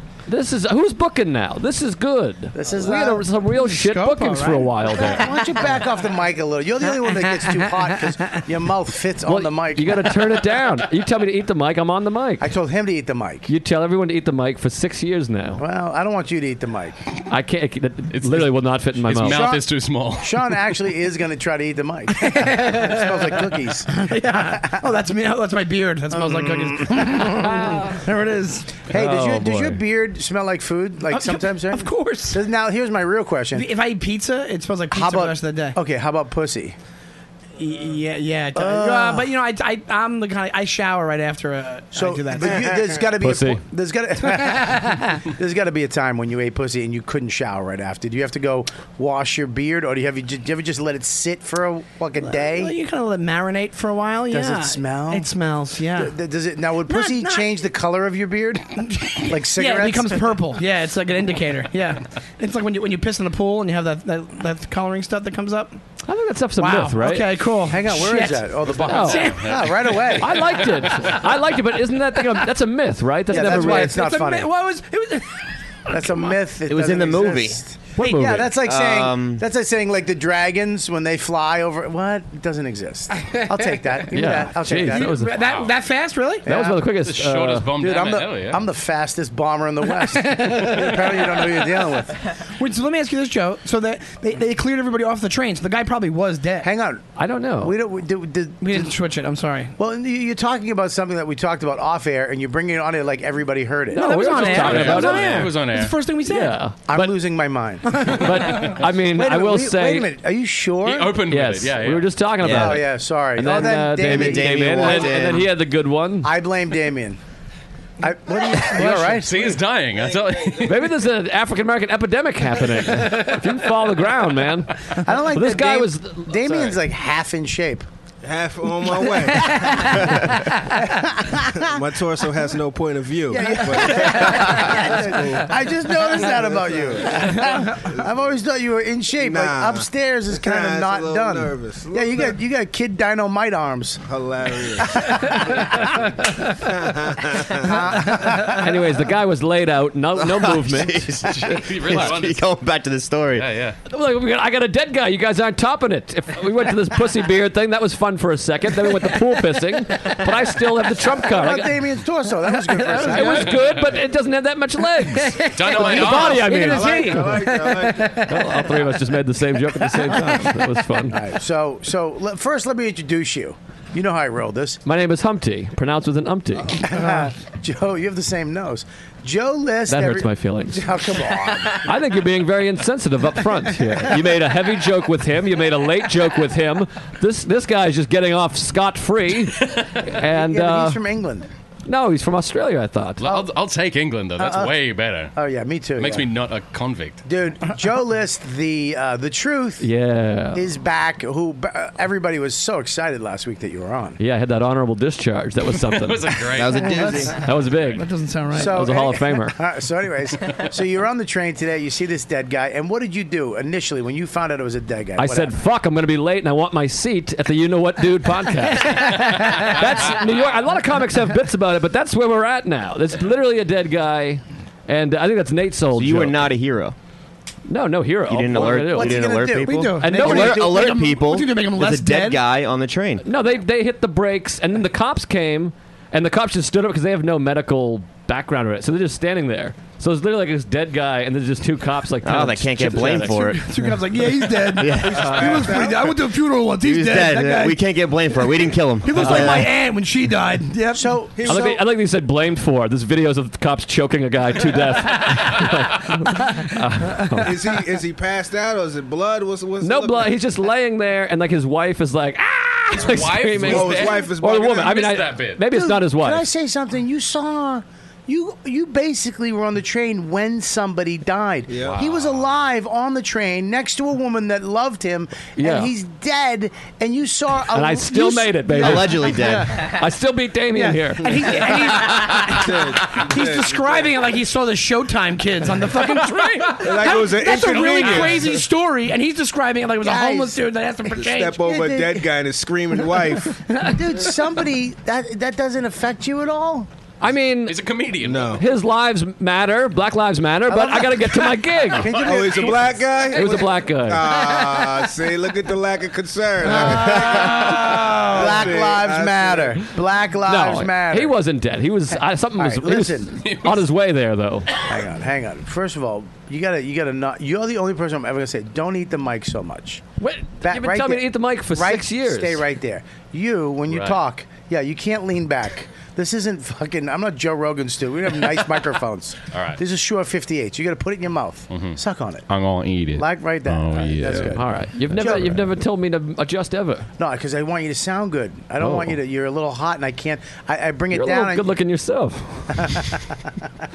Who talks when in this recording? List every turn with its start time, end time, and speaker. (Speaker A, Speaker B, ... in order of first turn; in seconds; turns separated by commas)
Speaker A: 0.3-5.4, Speaker B: 2.5-3.2, Speaker C: 3.4-5.0, Speaker B: 4.8-10.1, Speaker C: 7.1-7.5, Speaker A: 9.2-12.5, Speaker B: 12.4-13.5, Speaker A: 13.5-15.6, Speaker B: 15.6-17.0, Speaker A: 17.3-19.4, Speaker D: 18.1-18.5, Speaker D: 19.1-20.6, Speaker B: 19.2-19.7, Speaker B: 20.2-24.8, Speaker C: 22.2-23.3, Speaker C: 23.9-28.9, Speaker B: 26.1-27.5, Speaker A: 27.3-28.0, Speaker B: 28.9-33.7, Speaker D: 29.0-29.4, Speaker A: 29.1-29.7, Speaker C: 31.1-32.4, Speaker C: 33.5-35.8, Speaker B: 34.9-36.8, Speaker C: 37.6-42.6, Speaker B: 38.5-39.3, Speaker B: 41.9-52.8, Speaker E: 42.4-43.0, Speaker A: 43.2-43.6, Speaker C: 44.3-45.2, Speaker C: 52.2-56.1, Speaker B: 54.3-55.3, Speaker B: 55.9-60.4, Speaker C: 56.9-57.5, Speaker C: 58.8-65.8, Speaker A: 66.0-67.3, Speaker C: 66.6-70.1, Speaker B: 67.7-70.4, Speaker A: 68.8-69.3, Speaker D: 69.4-70.7, Speaker A: 70.2-74.0, Speaker B: 73.3-74.5, Speaker C: 73.3-76.3, Speaker B: 75.9-85.2, Speaker F: 76.7-77.6, Speaker A: 78.0-78.5, Speaker C: 78.0-78.4, Speaker F: 78.6-79.4, Speaker C: 83.2-83.8, Speaker A: 84.1-85.3, Speaker C: 84.7-86.5, Speaker D: 85.3-85.7, Speaker A: 86.4-87.7, Speaker B: 86.5-86.8, Speaker D: 87.0-88.7, Speaker B: 87.7-92.2, Speaker C: 89.9-91.9, Speaker C: 92.6-96.7, Speaker B: 96.6-98.9, Speaker A: 97.2-97.7, Speaker C: 98.6-99.7, Speaker B: 99.8-104.3, Speaker C: 103.9-106.6, Speaker A: 103.9-105.5, Speaker D: 104.3-106.0, Speaker A: 106.3-107.1, Speaker B: 106.9-108.2, Speaker C: 107.9-108.7, Speaker A: 108.1-110.1, Speaker B: 109.0-111.2, Speaker D: 110.8-112.1, Speaker A: 111.3-116.3, Speaker F: 112.4-112.8, Speaker B: 112.4-115.2, Speaker F: 113.9-115.5, Speaker B: 116.2-117.2, Speaker B: 118.0-119.6, Speaker D: 118.6-120.8, Speaker E: 120.0-120.8, Speaker A: 120.6-124.7, Speaker B: 125.0-127.8, Speaker A: 125.3-126.6, Speaker D: 126.5-126.8, Speaker E: 128.2-130.4, Speaker B: 129.1-131.8, Speaker E: 131.5-138.2, Speaker B: 133.3-144.0, Speaker E: 139.2-142.4, Speaker E: 144.0-145.6, Speaker B: 144.8-146.1, Speaker E: 146.5-148.0, Speaker B: 147.4-148.7, Speaker A: 148.3-151.1, Speaker F: 150.1-153.5, Speaker D: 151.4-152.5, Speaker D: 153.4-153.8, Speaker A: 153.9-161.8, Speaker B: 161.2-163.6, Speaker A: 162.7-167.4, Speaker C: 163.0-163.5, Speaker C: 165.0-169.0, Speaker D: 165.5-166.5, Speaker E: 166.5-168.1, Speaker A: 168.1-171.2, Speaker C: 169.7-170.8, Speaker B: 171.1-174.8, Speaker A: 174.8-176.8, Speaker B: 176.8-181.9, Speaker C: 176.9-177.3, Speaker A: 179.9-180.9, Speaker A: 181.7-191.0, Speaker B: 190.2-191.5, Speaker A: 191.8-193.4, Speaker D: 193.2-195.3, Speaker B: 194.4-194.8, Speaker B: 195.3-196.3, Speaker D: 196.0-197.2, Speaker B: 197.2-199.8, Speaker A: 199.8-200.6, Speaker B: 200.5-204.2, Speaker A: 204.2-206.6, Speaker D: 205.8-207.0, Speaker F: 206.5-207.4, Speaker C: 206.8-207.4, Speaker A: 207.2-209.6, Speaker D: 207.6-208.0, Speaker C: 207.9-208.9, Speaker B: 208.5-215.5, Speaker A: 215.2-226.4, Speaker F: 225.9-226.9, Speaker A: 227.7-229.4, Speaker F: 228.3-233.2, Speaker B: 228.5-231.1, Speaker C: 229.6-232.4, Speaker A: 230.0-230.7, Speaker A: 233.2-243.5, Speaker F: 242.2-245.4, Speaker C: 243.3-247.8, Speaker E: 244.9-246.3, Speaker F: 246.8-249.7, Speaker C: 249.0-251.2, Speaker A: 249.2-249.6, Speaker B: 250.9-251.8, Speaker E: 251.3-251.8, Speaker A: 251.4-257.5, Speaker E: 257.4-260.3, Speaker A: 259.8-266.4, Speaker D: 262.9-265.6, Speaker E: 263.6-265.0, Speaker B: 265.7-279.0, Speaker E: 271.7-272.0, Speaker D: 271.8-272.5, Speaker A: 275.6-275.9, Speaker A: 277.7-281.5, Speaker F: 278.7-279.9, Speaker C: 279.3-279.9, Speaker C: 280.7-291.7, Speaker E: 281.3-284.2, Speaker D: 286.0-288.6, Speaker E: 286.8-288.5, Speaker B: 290.0-290.6, Speaker E: 291.1-293.6, Speaker B: 291.6-292.3, Speaker C: 293.1-293.9, Speaker B: 293.8-296.9, Speaker A: 297.2-297.8, Speaker D: 297.6-298.6, Speaker E: 298.2-298.6, Speaker A: 298.5-302.1, Speaker B: 300.7-303.0, Speaker D: 301.9-302.8, Speaker E: 302.1-309.8, Speaker A: 303.2-304.3, Speaker C: 306.6-308.6, Speaker B: 307.5-311.4, Speaker A: 310.4-314.7, Speaker B: 312.6-313.4, Speaker D: 313.4-313.8, Speaker B: 314.8-320.0, Speaker A: 320.2-322.6, Speaker B: 320.6-332.4, Speaker D: 323.9-324.2, Speaker D: 329.5-329.8, Speaker D: 331.7-334.6, Speaker B: 333.2-335.7, Speaker A: 334.5-337.1, Speaker B: 337.2-341.7, Speaker A: 338.8-339.2, Speaker A: 341.1-342.7, Speaker B: 342.8-343.2